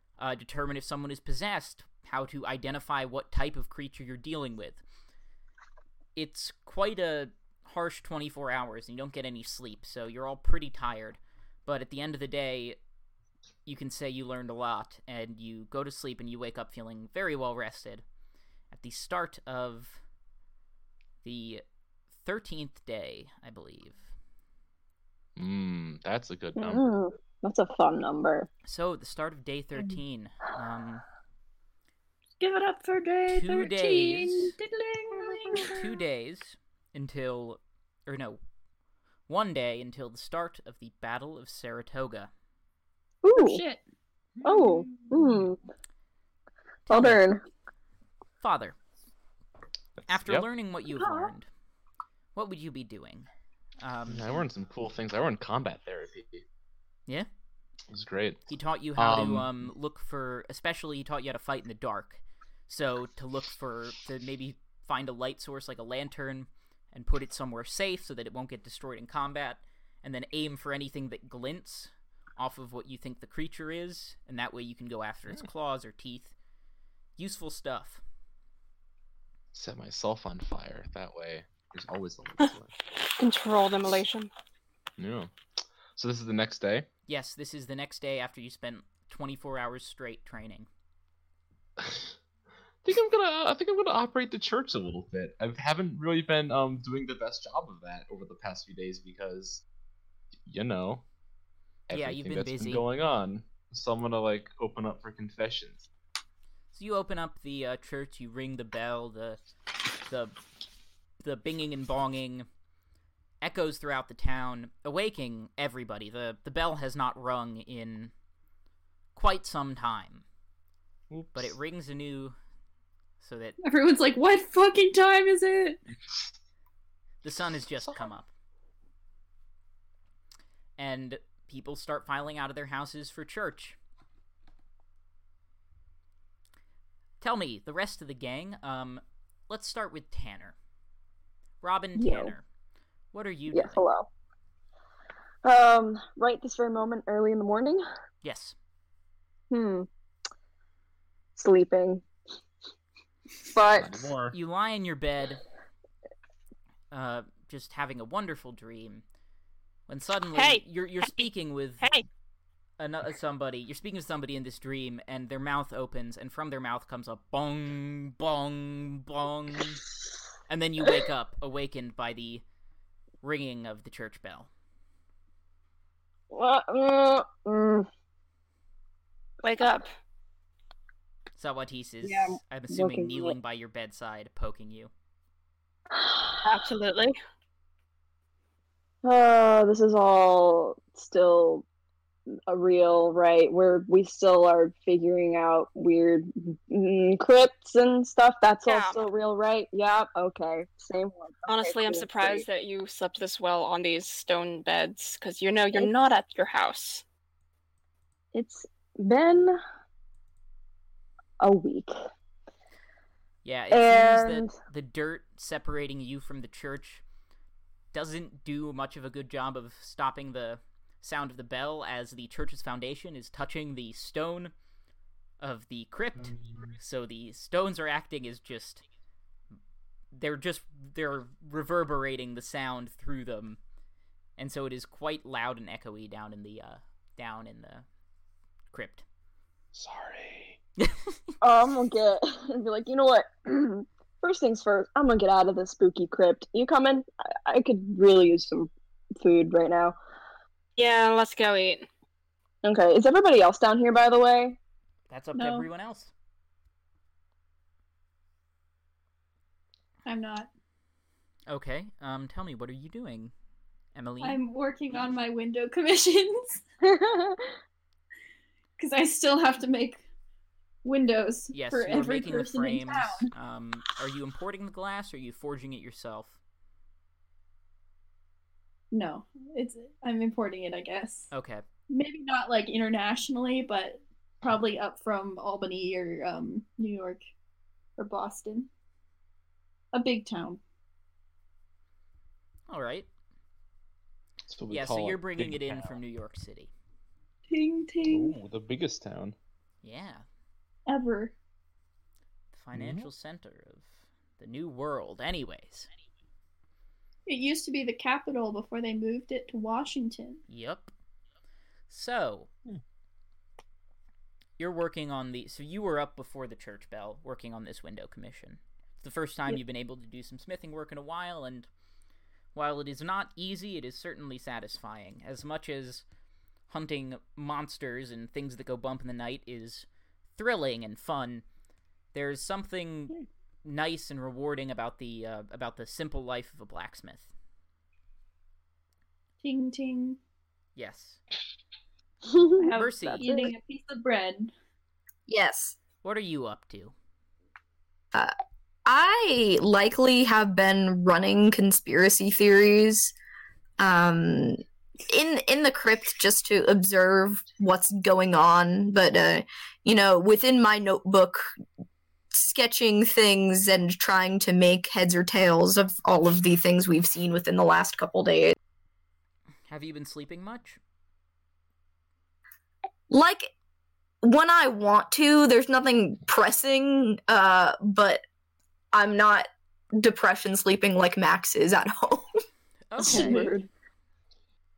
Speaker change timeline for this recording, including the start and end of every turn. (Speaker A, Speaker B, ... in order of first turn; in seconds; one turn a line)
Speaker A: 0.2-4.8
Speaker A: 6.2-12.8
Speaker A: 13.7-18.0
Speaker A: 18.7-20.0
Speaker A: 21.2-21.6
Speaker A: 22.2-24.1
Speaker B: 25.4-26.8
Speaker C: 26.6-28.5
Speaker A: 28.6-31.0
Speaker D: 32.4-35.9
Speaker A: 33.3-34.5
Speaker A: 35.7-38.4
Speaker A: 39.3-42.3
Speaker C: 43.2-43.6
Speaker D: 43.3-43.8
Speaker B: 44.4-45.4
Speaker C: 44.4-45.6
Speaker A: 46.9-47.2
Speaker C: 46.9-47.4
Speaker A: 48.4-48.8
Speaker B: 50.0-50.5
Speaker A: 50.1-51.5
Speaker A: 52.3-53.3
Speaker A: 53.8-54.5
Speaker B: 54.1-56.4
Speaker B: 57.9-58.4
Speaker A: 58.5-76.3
Speaker B: 59.0-59.5
Speaker A: 77.2-78.0
Speaker B: 79.5-82.7
Speaker E: 83.2-84.3
Speaker B: 85.0-85.3
Speaker B: 85.9-86.9
Speaker A: 87.1-90.7
Speaker B: 91.8-92.1
Speaker B: 92.8-99.6
Speaker B: 100.5-101.0
Speaker B: 101.9-105.9
Speaker A: 101.9-102.8
Speaker A: 106.7-109.4
Speaker A: 110.0-110.3
Speaker A: 111.2-112.5
Speaker A: 113.4-118.1
Speaker A: 119.1-120.2
Speaker B: 121.1-121.5
Speaker A: 121.3-122.3
Speaker A: 123.2-123.6
Speaker D: 123.6-125.8
Speaker A: 127.2-128.3
Speaker A: 130.8-133.8
Speaker A: 137.2-140.5
Speaker A: 141.6-142.4
Speaker C: 141.9-142.3
Speaker A: 143.1-143.8
Speaker C: 143.5-144.1
Speaker C: 145.4-147.8
Speaker A: 148.2-148.6
Speaker C: 149.5-149.9
Speaker C: 151.3-152.0
Speaker C: 153.4-154.0
Speaker B: 153.7-154.3
Speaker A: 154.3-155.4
Speaker A: 156.9-159.0
Speaker A: 159.9-161.9
Speaker E: 160.3-161.2
Speaker A: 162.8-169.8
Speaker A: 170.5-172.4
Speaker A: 173.2-174.5
Speaker C: 176.3-177.9
Speaker E: 179.4-179.9
Speaker A: 181.4-184.9
Speaker C: 182.0-183.3
Speaker C: 185.9-186.7
Speaker E: 186.4-187.2
Speaker C: 189.0-191.6
Speaker C: 192.5-202.4
Speaker E: 198.7-199.0
Speaker E: 201.5-207.0
Speaker C: 208.3-209.6
Speaker C: 211.4-211.9
Speaker A: 213.4-217.0
Speaker C: 213.7-214.5
Speaker A: 217.9-224.5
Speaker A: 225.4-228.8
Speaker B: 226.3-226.6
Speaker A: 230.1-233.6
Speaker A: 234.4-237.8
Speaker A: 238.7-239.0
Speaker B: 239.7-240.6
Speaker A: 240.8-241.1
Speaker C: 241.4-249.9
Speaker E: 250.8-251.9
Speaker C: 252.6-254.6
Speaker A: 255.1-256.1
Speaker D: 255.3-255.7
Speaker D: 260.1-260.5
Speaker A: 261.5-263.3
Speaker A: 263.9-264.4
Speaker D: 264.2-266.6
Speaker C: 266.8-267.4
Speaker D: 268.8-270.0
Speaker D: 270.8-273.3
Speaker A: 271.5-276.4
Speaker D: 278.9-281.3
Speaker A: 281.3-281.6
Speaker D: 281.9-287.2
Speaker D: 288.0-288.7
Speaker D: 289.9-290.6
Speaker A: 292.7-293.1
Speaker B: 294.5-296.0
Speaker A: 294.7-296.7
Speaker D: 297.5-298.4
Speaker B: 298.1-299.4
Speaker A: 299.8-300.2
Speaker D: 300.9-301.3
Speaker A: 302.5-305.9
Speaker B: 302.7-303.1
Speaker D: 307.3-310.4
Speaker A: 310.5-310.9
Speaker A: 311.9-312.5
Speaker A: 314.6-321.7
Speaker A: 322.5-326.0
Speaker A: 326.7-331.4
Speaker A: 332.1-337.3
Speaker D: 339.4-340.2
Speaker A: 340.8-341.2
Speaker C: 342.3-343.5
Speaker D: 342.6-344.5
Speaker A: 342.7-343.3
Speaker F: 345.3-345.8
Speaker A: 346.0-346.9
Speaker F: 348.8-353.1
Speaker F: 353.8-361.5
Speaker F: 362.3-368.6
Speaker A: 369.7-370.8
Speaker F: 373.1-373.5
Speaker F: 374.2-378.2
Speaker F: 378.9-382.3
Speaker A: 382.9-383.5
Speaker C: 383.0-383.7
Speaker D: 383.0-383.5